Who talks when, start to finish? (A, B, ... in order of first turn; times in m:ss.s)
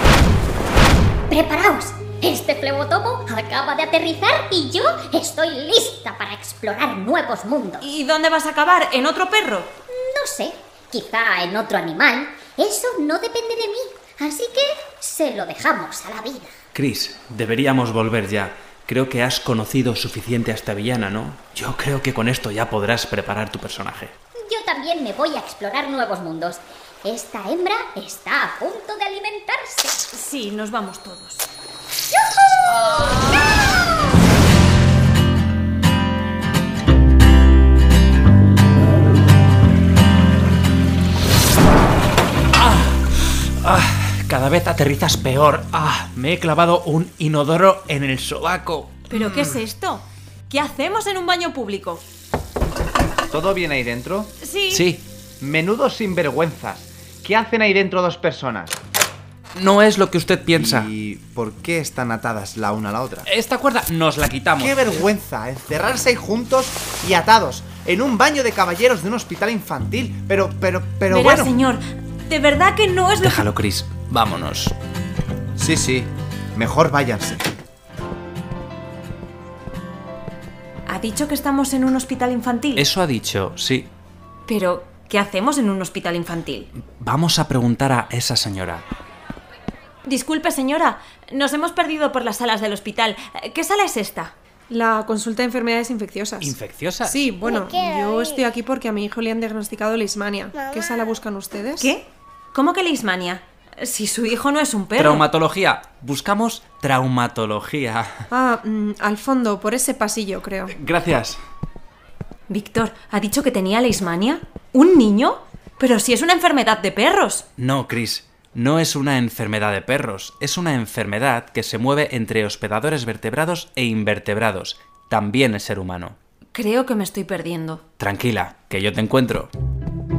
0:01.3-0:07.9 A
0:07.8-0:09.7 B
0:09.9-0:16.5 A
0:16.7-0:24.2 C
0:24.4-0:30.0 A
0:30.1-0:31.5 B
0:32.1-0:33.7 A
0:32.8-0:33.5 B
0:42.6-0:49.1 C
0:49.1-0:52.0 B
0:53.3-0:54.3 D
0:54.4-0:54.9 B
0:54.7-0:55.0 C
0:55.4-0:58.8 D
0:59.6-1:00.9 C
1:00.6-1:03.3 D
1:03.3-1:05.0 C
1:04.6-1:11.5 D
1:11.1-1:13.4 B
1:13.2-1:14.7 C
1:15.6-1:17.4 D
1:20.9-1:22.8 B
1:22.8-1:23.9 C
1:24.5-1:26.7 B
1:26.8-1:28.8 C
1:30.1-1:34.3 B
1:34.7-1:36.5 E
1:36.4-1:37.3 C
1:37.0-1:41.9 E
1:41.8-1:45.3 B
1:45.0-1:48.3 C
1:48.3-1:50.7 E
1:50.7-1:51.4 C
1:52.5-1:57.5 B
1:57.6-2:06.2 C
2:06.5-2:07.8 B
2:08.0-2:09.5 C